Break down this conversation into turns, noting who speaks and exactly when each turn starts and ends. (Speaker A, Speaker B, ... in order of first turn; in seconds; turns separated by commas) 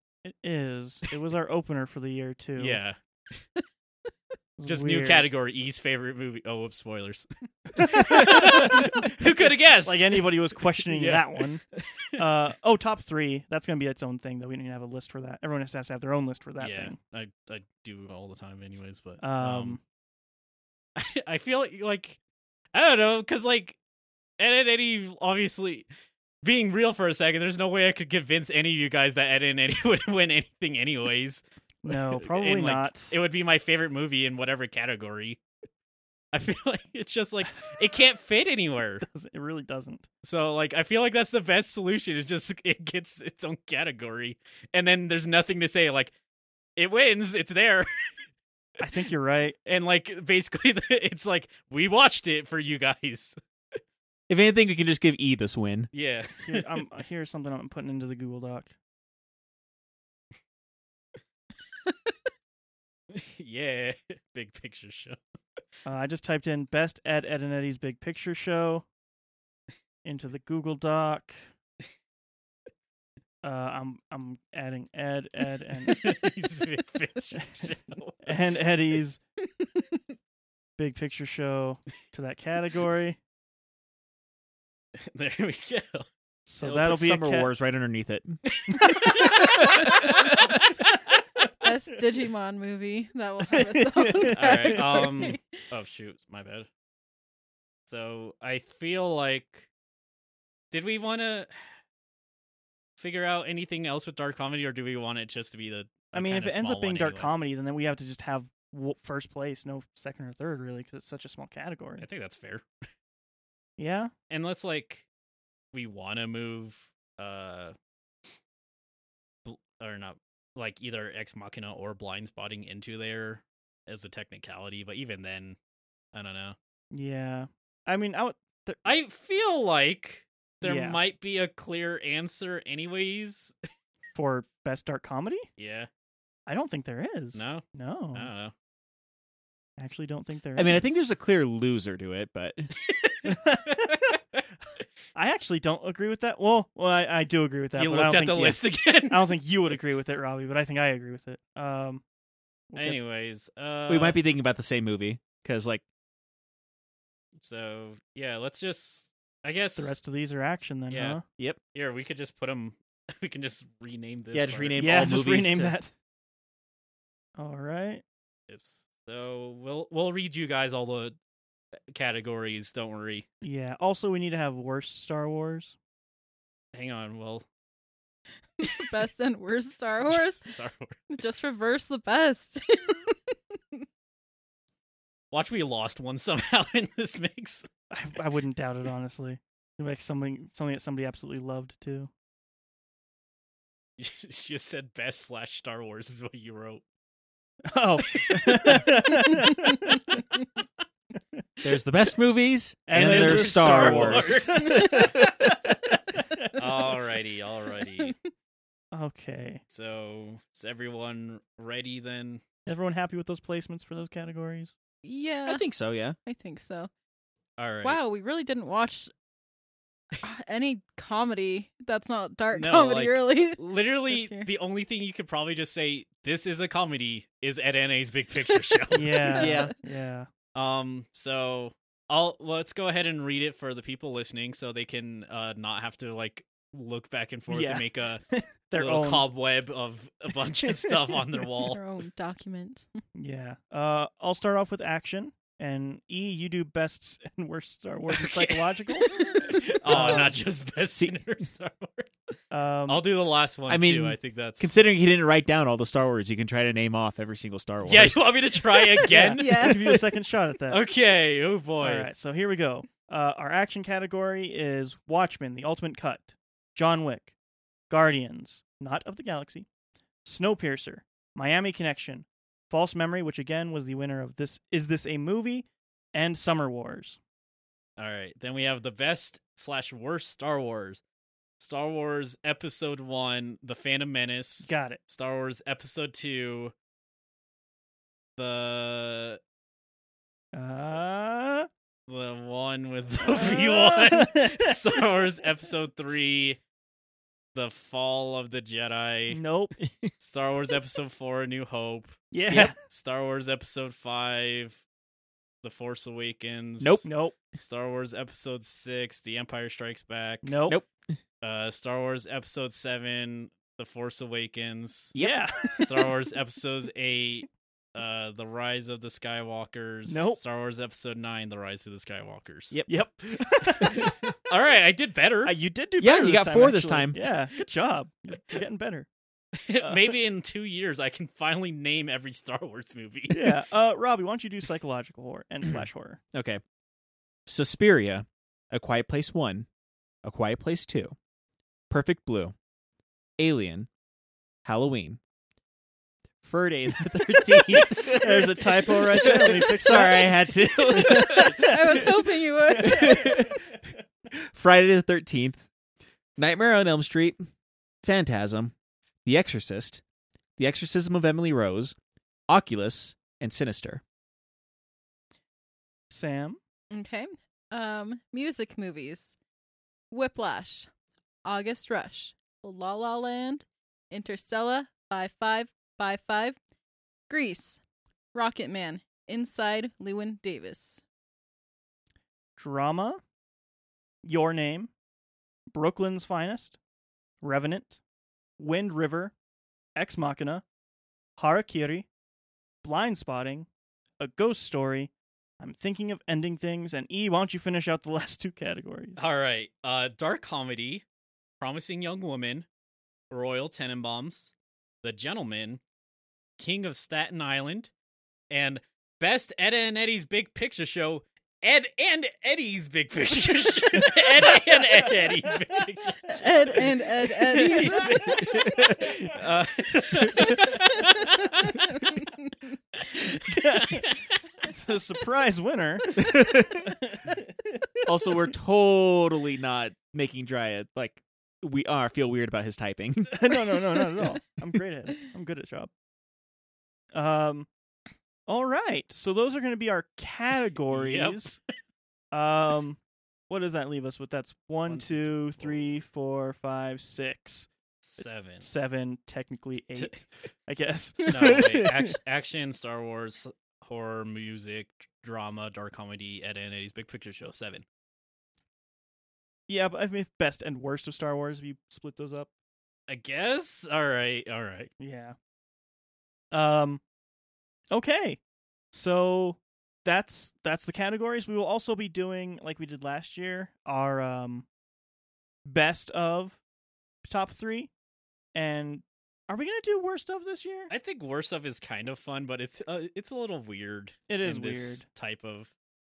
Speaker A: 0.2-2.8, Speaker B: 2.6-3.0, Speaker A: 4.6-5.3, Speaker B: 4.7-12.2, Speaker A: 7.8-9.1, Speaker A: 9.8-11.6, Speaker A: 12.2-16.9, Speaker B: 16.6-19.8, Speaker A: 19.2-19.8, Speaker B: 21.0-22.2, Speaker B: 22.7-23.8, Speaker B: 24.4-25.9, Speaker B: 26.4-35.4, Speaker A: 31.8-33.2, Speaker B: 36.3-39.0, Speaker A: 39.0-40.1, Speaker B: 40.2-46.1, Speaker B: 46.8-48.1, Speaker A: 48.8-49.6, Speaker B: 49.6-53.4, Speaker C: 54.3-55.9, Speaker B: 55.9-56.8, Speaker A: 56.4-58.7, Speaker B: 63.1-65.2, Speaker A: 65.8-68.9, Speaker A: 70.0-71.4, Speaker A: 73.4-76.3, Speaker B: 75.8-78.4, Speaker A: 78.2-79.2, Speaker A: 80.8-83.2, Speaker B: 85.0-86.1, Speaker A: 86.5-87.5, Speaker C: 86.6-88.4, Speaker B: 88.5-91.0, Speaker A: 88.8-90.4, Speaker C: 89.0-89.6, Speaker D: 91.6-95.6, Speaker A: 93.5-95.1, Speaker B: 94.3-96.7, Speaker B: 97.9-99.7, Speaker B: 100.7-101.5, Speaker B: 103.0-107.4, Speaker A: 106.1-112.0, Speaker B: 112.0-112.6, Speaker A: 113.8-114.1, Speaker B: 114.3-115.1, Speaker B: 115.7-117.8, Speaker B: 119.4-125.6, Speaker B: 126.1-126.6, Speaker A: 126.9-128.8, Speaker B: 128.8-133.5, Speaker A: 130.6-131.0, Speaker A: 134.1-135.5, Speaker B: 135.6-135.9, Speaker A: 136.5-138.3, Speaker B: 137.3-138.5, Speaker A: 139.8-140.9, Speaker C: 140.6-142.7, Speaker B: 142.8-144.4, Speaker A: 143.2-144.1, Speaker A: 145.1-152.0, Speaker B: 147.8-149.4, Speaker A: 152.7-153.0, Speaker B: 152.8-154.2, Speaker C: 153.9-155.8, Speaker B: 157.4-160.0, Speaker A: 159.8-161.2, Speaker B: 160.9-161.2, Speaker B: 161.7-165.0, Speaker C: 164.3-165.8, Speaker A: 164.8-165.9, Speaker A: 167.4-168.0, Speaker B: 168.5-171.2, Speaker B: 171.9-173.3, Speaker A: 173.4-175.8, Speaker B: 176.7-177.4, Speaker D: 178.6-180.6, Speaker B: 180.1-181.1, Speaker D: 181.1-183.8, Speaker B: 185.3-187.7, Speaker A: 187.9-192.1, Speaker B: 194.0-196.8, Speaker A: 197.7-200.2, Speaker B: 198.1-198.9, Speaker C: 201.6-205.7, Speaker A: 202.9-205.3, Speaker B: 202.9-205.1, Speaker A: 206.2-206.8, Speaker B: 206.6-208.1, Speaker A: 208.9-209.6, Speaker B: 209.7-212.4, Speaker A: 212.7-214.8, Speaker D: 215.0-215.6, Speaker C: 215.4-216.2, Speaker D: 216.3-216.9, Speaker B: 217.6-218.0, Speaker D: 217.8-219.1, Speaker D: 220.2-224.5, Speaker B: 222.5-229.5, Speaker A: 228.9-230.3, Speaker D: 229.3-229.6, Speaker C: 229.4-229.7, Speaker B: 230.6-238.2, Speaker A: 237.5-239.3, Speaker B: 238.8-241.8, Speaker A: 240.9-241.1, Speaker D: 241.7-242.9, Speaker A: 243.1-249.1, Speaker B: 248.1-252.3, Speaker D: 249.1-249.6, Speaker A: 249.8-250.4, Speaker A: 252.5-253.0, Speaker B: 252.9-254.7, Speaker C: 253.7-258.4, Speaker B: 257.8-259.9, Speaker A: 259.0-260.8, Speaker D: 259.4-260.0, Speaker B: 260.7-262.1, Speaker A: 261.8-267.3, Speaker A: 267.9-269.7, Speaker A: 270.2-277.2, Speaker B: 278.0-281.0, Speaker B: 281.6-286.7, Speaker A: 284.6-285.0, Speaker B: 288.4-289.4, Speaker A: 290.5-291.7, Speaker B: 292.1-296.6, Speaker A: 293.3-295.2, Speaker B: 297.6-299.4, Speaker A: 299.3-299.8, Speaker C: 299.8-300.1, Speaker B: 300.2-304.8, Speaker A: 302.3-302.8, Speaker B: 305.6-310.6, Speaker C: 306.8-307.1, Speaker A: 307.1-307.4, Speaker A: 310.4-310.8, Speaker B: 311.4-315.1, Speaker C: 315.1-315.5, Speaker A: 315.2-316.1, Speaker B: 315.8-322.8, Speaker A: 320.1-320.4, Speaker A: 322.9-324.3, Speaker C: 323.8-324.3, Speaker B: 324.5-325.6, Speaker A: 325.4-329.1, Speaker C: 326.0-327.2, Speaker B: 329.6-333.6, Speaker A: 329.8-330.1, Speaker A: 333.3-336.2, Speaker C: 336.3-336.6, Speaker C: 337.5-339.7, Speaker C: 340.2-341.1, Speaker C: 341.9-342.5, Speaker C: 343.4-343.9, Speaker C: 344.6-345.2, Speaker C: 346.4-352.1, Speaker A: 347.4-352.1, Speaker D: 351.4-353.3, Speaker A: 352.8-353.6, Speaker C: 352.8-353.8, Speaker C: 354.3-355.7, Speaker C: 356.4-357.5, Speaker C: 358.0-358.7, Speaker C: 359.2-360.0, Speaker C: 360.6-361.9, Speaker C: 362.5-364.0, Speaker A: 366.1-366.6, Speaker D: 366.9-369.4, Speaker D: 370.1-370.9, Speaker D: 371.4-376.6, Speaker D: 377.3-377.8, Speaker D: 378.3-381.0, Speaker A: 382.6-383.2, Speaker A: 384.2-384.9, Speaker A: 385.7-386.8, Speaker A: 387.4-388.0, Speaker A: 388.6-389.3, Speaker A: 389.9-390.6, Speaker A: 391.4-392.1, Speaker A: 392.8-393.7, Speaker A: 394.2-399.2, Speaker B: 399.2-401.0, Speaker B: 401.6-402.7, Speaker B: 403.3-405.8, Speaker B: 406.6-407.9, Speaker B: 408.5-422.2, Speaker A: 414.0-414.6, Speaker D: 416.3-418.2, Speaker A: 417.7-418.4, Speaker C: 418.4-419.2, Speaker B: 422.9-424.3, Speaker A: 423.5-424.1, Speaker A: 424.6-428.5, Speaker C: 426.2-426.9, Speaker C: 428.1-433.6, Speaker A: 433.3-435.9, Speaker A: 437.1-437.7, Speaker A: 438.5-441.6, Speaker B: 440.9-441.6, Speaker A: 442.3-447.7, Speaker B: 444.9-445.8, Speaker B: 448.0-448.7, Speaker A: 448.6-452.1, Speaker B: 449.9-450.2, Speaker B: 451.2-457.9, Speaker A: 459.7-462.5, Speaker B: 463.1-464.9, Speaker A: 465.0-465.4, Speaker A: 466.5-467.0, Speaker A: 467.9-468.4, Speaker A: 468.9-474.7, Speaker A: 475.7-476.6, Speaker A: 477.2-477.9, Speaker A: 478.6-480.9, Speaker B: 480.9-485.7, Speaker A: 484.3-485.0